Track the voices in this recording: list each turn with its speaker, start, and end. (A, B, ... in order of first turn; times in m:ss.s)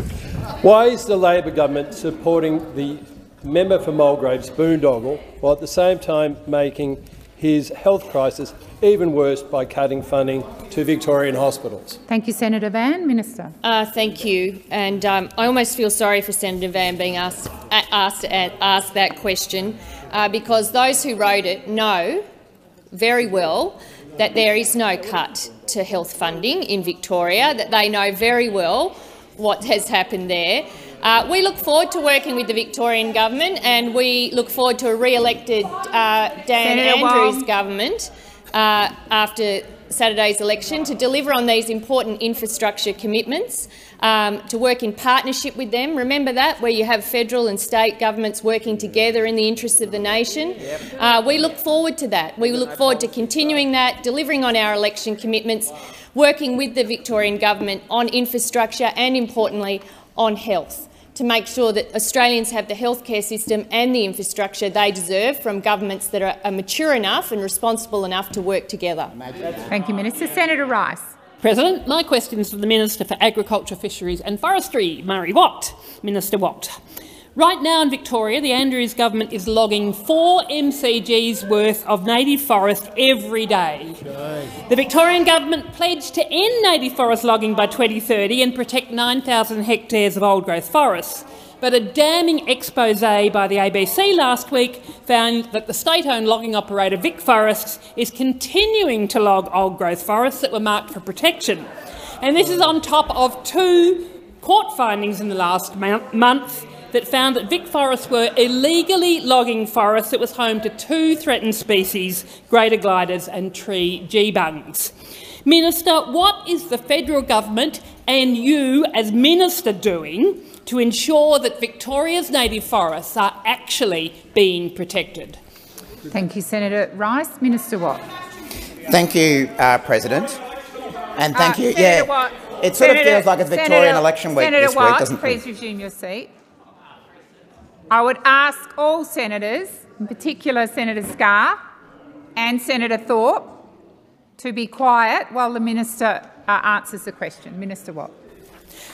0:00.6-0:12.0 A
0:12.1-0:13.5 B
0:13.6-0:22.2 C
0:22.9-1:09.1 C
0:36.6-0:37.4 B
1:09.7-1:11.0 B
1:11.4-1:16.8 D
1:17.4-1:24.0 D
1:24.7-1:41.7 D
1:42.2-1:54.9 D
1:55.4-2:05.4 D
2:06.1-2:08.0 B
2:08.9-2:10.4 E
2:11.2-2:15.4 E
2:11.4-2:16.3 B
2:17.9-2:21.6 B
2:22.4-2:23.6 B
2:24.4-2:28.1 B